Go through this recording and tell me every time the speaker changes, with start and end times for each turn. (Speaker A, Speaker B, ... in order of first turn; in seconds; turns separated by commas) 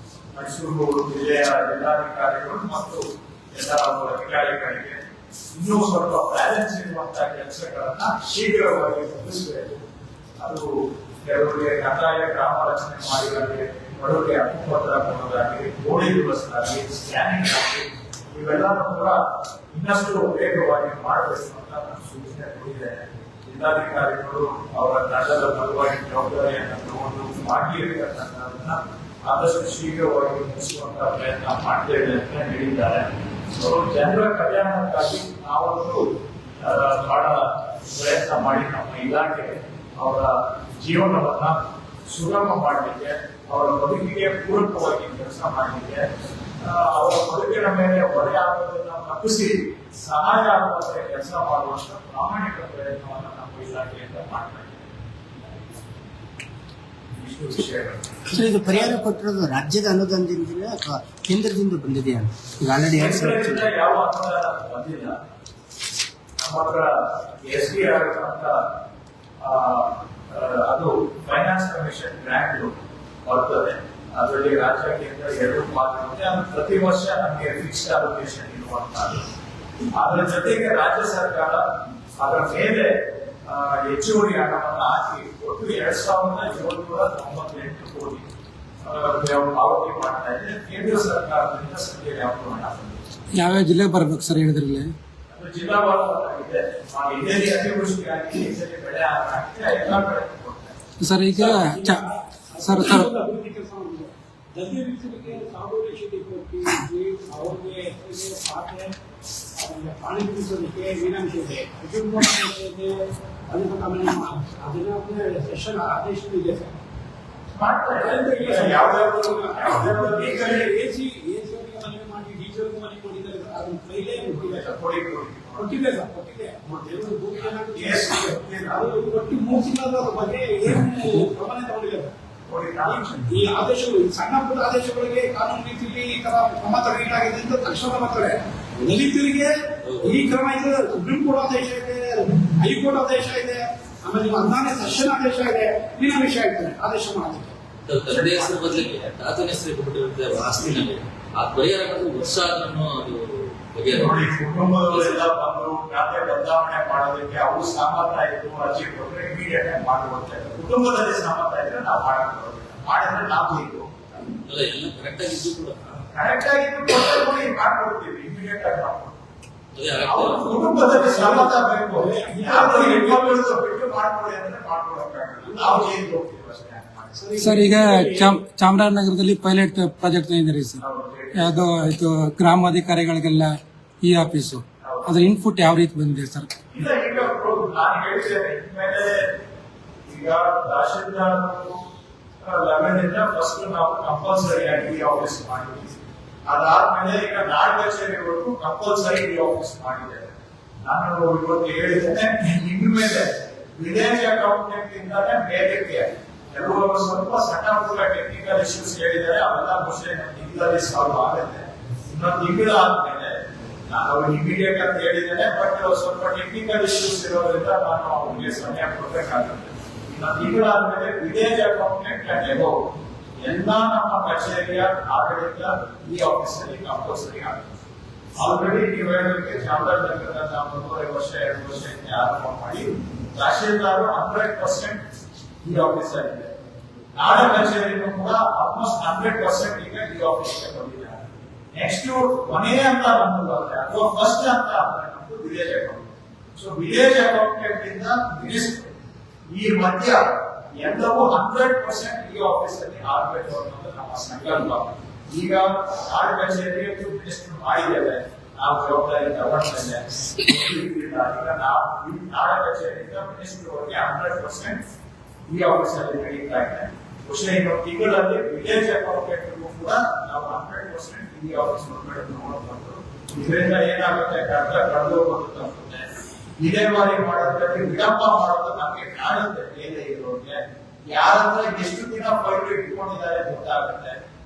Speaker A: 0.3-5.0, Speaker A: 5.5-9.8, Speaker A: 10.4-19.2, Speaker A: 19.7-36.1, Speaker A: 36.6-54.9, Speaker A: 57.1-59.0, Speaker B: 58.3-63.7, Speaker A: 62.9-65.2, Speaker A: 66.4-68.6, Speaker A: 69.4-79.2, Speaker A: 80.0-81.6, Speaker A: 82.2-88.2, Speaker A: 88.8-93.1, Speaker C: 93.4-94.9, Speaker A: 95.3-100.8, Speaker C: 101.0-102.0, Speaker D: 101.4-108.9, Speaker C: 102.6-103.1, Speaker D: 109.5-116.8, Speaker A: 117.5-120.7, Speaker D: 118.0-124.7, Speaker A: 124.2-125.8, Speaker D: 125.6-132.1, Speaker A: 126.6-127.0, Speaker A: 127.6-128.9, Speaker A: 132.5-133.5, Speaker D: 132.8-147.6, Speaker E: 139.8-140.2, Speaker E: 147.8-154.2, Speaker A: 148.1-148.9, Speaker A: 153.9-164.1, Speaker E: 154.9-155.2, Speaker E: 164.4-166.0, Speaker A: 166.1-169.2, Speaker E: 169.7-170.6, Speaker A: 170.0-178.2, Speaker D: 170.7-173.5, Speaker D: 175.5-175.8, Speaker D: 177.2-178.3, Speaker C: 177.4-180.8, Speaker A: 180.8-181.8, Speaker C: 181.3-186.5, Speaker A: 184.8-185.2, Speaker A: 186.7-189.3, Speaker A: 190.1-191.8, Speaker A: 192.4-195.9, Speaker A: 196.5-222.8, Speaker A: 223.4-227.7, Speaker A: 228.4-235.0, Speaker A: 235.6-236.6, Speaker A: 237.2-248.9, Speaker A: 249.5-250.2, Speaker A: 250.8-264.8, Speaker A: 265.5-276.1, Speaker A: 276.6-284.2